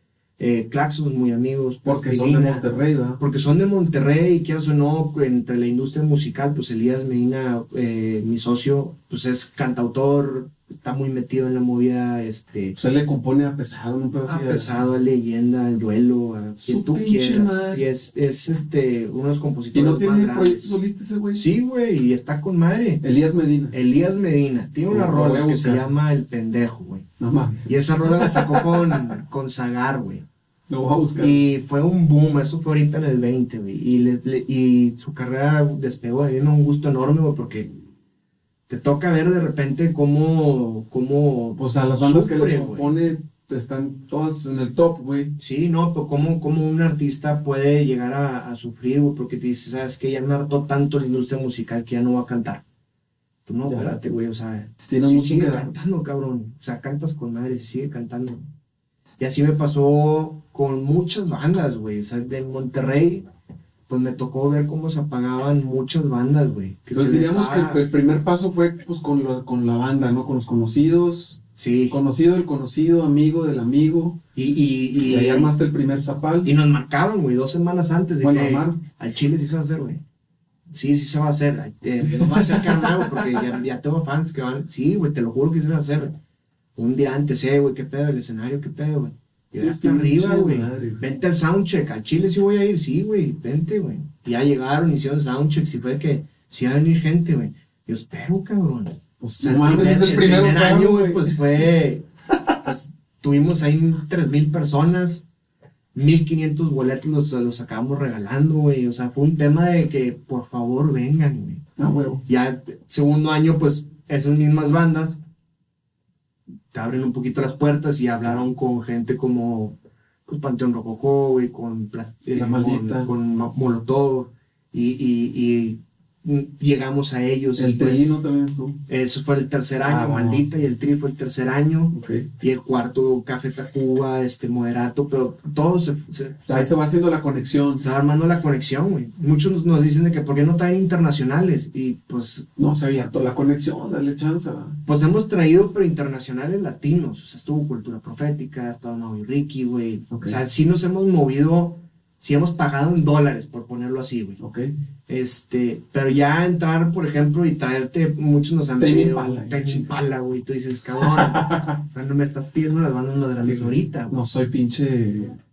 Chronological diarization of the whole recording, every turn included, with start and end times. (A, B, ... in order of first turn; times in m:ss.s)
0:00.4-0:02.6 A
0:01.8-0:03.2 B
0:03.2-0:12.7 A
0:12.7-0:14.7 B
0:14.2-0:20.7 A
0:16.6-0:17.8 B
0:19.7-0:21.4 B
0:21.3-0:23.0 A
0:23.0-0:23.7 B
0:23.7-0:27.1 A
0:24.9-0:25.9 B
0:27.2-0:29.1 B
0:27.6-0:30.2 A
0:30.7-0:31.4 B
0:31.2-0:37.7 A
0:38.7-0:42.9 A
0:41.6-0:45.4 B
0:45.4-0:52.6 A
0:53.4-0:58.4 A
0:53.7-0:53.9 B
0:54.8-0:55.7 B
0:59.2-1:03.2 A
1:03.9-1:07.8 A
1:06.9-1:14.2 B
1:11.6-1:12.0 A
1:14.4-1:15.5 A
1:15.0-1:16.5 B
1:16.4-1:20.0 A
1:18.2-1:18.8 B
1:20.7-1:26.1 A
1:22.2-1:23.4 B
1:26.8-1:42.1 A
1:29.5-1:31.0 B
1:39.2-1:41.4 B
1:42.3-1:42.6 B
1:42.6-1:45.2 A
1:45.9-1:51.6 A
1:51.8-1:52.2 B
1:52.3-1:55.2 A
1:56.7-2:08.1 A
2:02.3-2:03.1 B
2:07.6-2:08.8 B
2:08.9-2:16.7 A
2:09.8-2:10.4 B
2:11.9-2:12.3 B
2:16.5-2:17.8 B
2:17.8-2:22.5 A
2:22.6-2:24.8 B
2:24.8-2:34.4 A
2:30.1-2:30.4 B
2:34.4-2:34.7 B
2:35.1-2:44.2 A
2:38.8-2:39.9 B
2:41.0-2:41.8 B
2:43.4-2:45.4 B